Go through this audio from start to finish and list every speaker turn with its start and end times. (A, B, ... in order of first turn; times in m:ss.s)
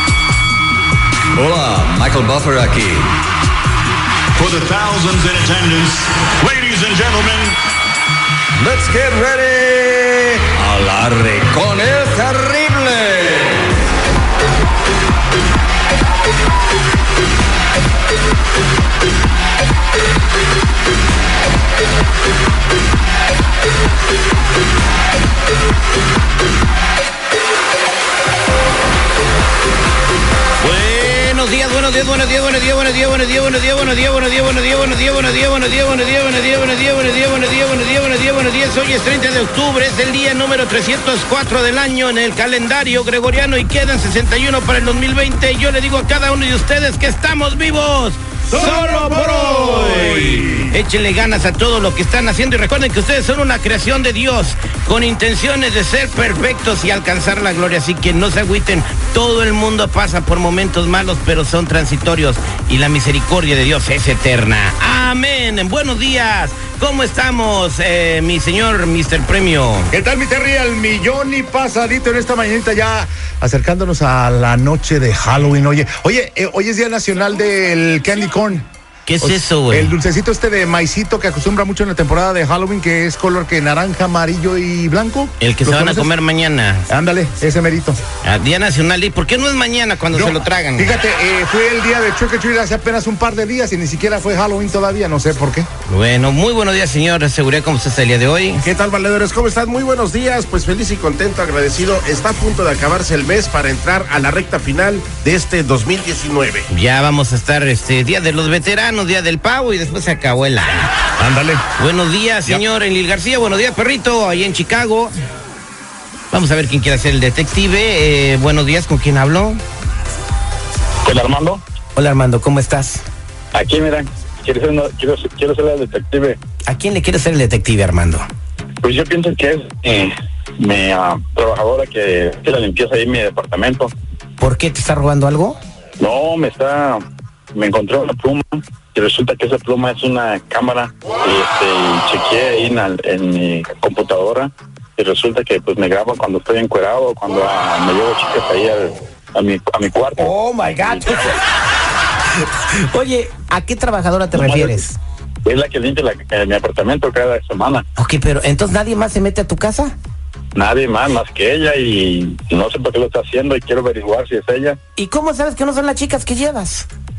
0:01.3-0:03.2 A
0:04.4-0:07.6 B
0:08.6-0:13.6 A
0:30.6-1:09.9 C
0:48.5-0:50.4 D
1:09.9-1:18.6 D
1:19.1-1:19.9 C
1:19.2-1:26.1 D
1:25.4-1:26.9 C
1:26.9-1:28.0 D
1:28.2-1:31.0 C
1:30.1-1:35.7 D
1:35.9-1:38.6 C
1:38.6-1:46.7 E
1:46.7-1:50.9 C
1:51.2-1:51.6 D
1:51.8-1:55.1 C
1:56.3-1:59.6 C
2:01.0-2:01.6 F
2:02.0-2:03.0 C
2:03.5-2:06.4 F
2:06.7-2:08.2 C
2:08.8-2:13.9 F
2:14.4-2:15.6 C
2:16.0-2:17.0 F
2:17.5-2:31.4 F
2:30.2-2:31.4 C
2:32.4-2:35.0 C
2:34.3-2:34.8 F
2:35.4-2:37.8 F
2:38.0-2:39.9 C
2:40.5-2:44.8 F
2:45.0-2:46.9 C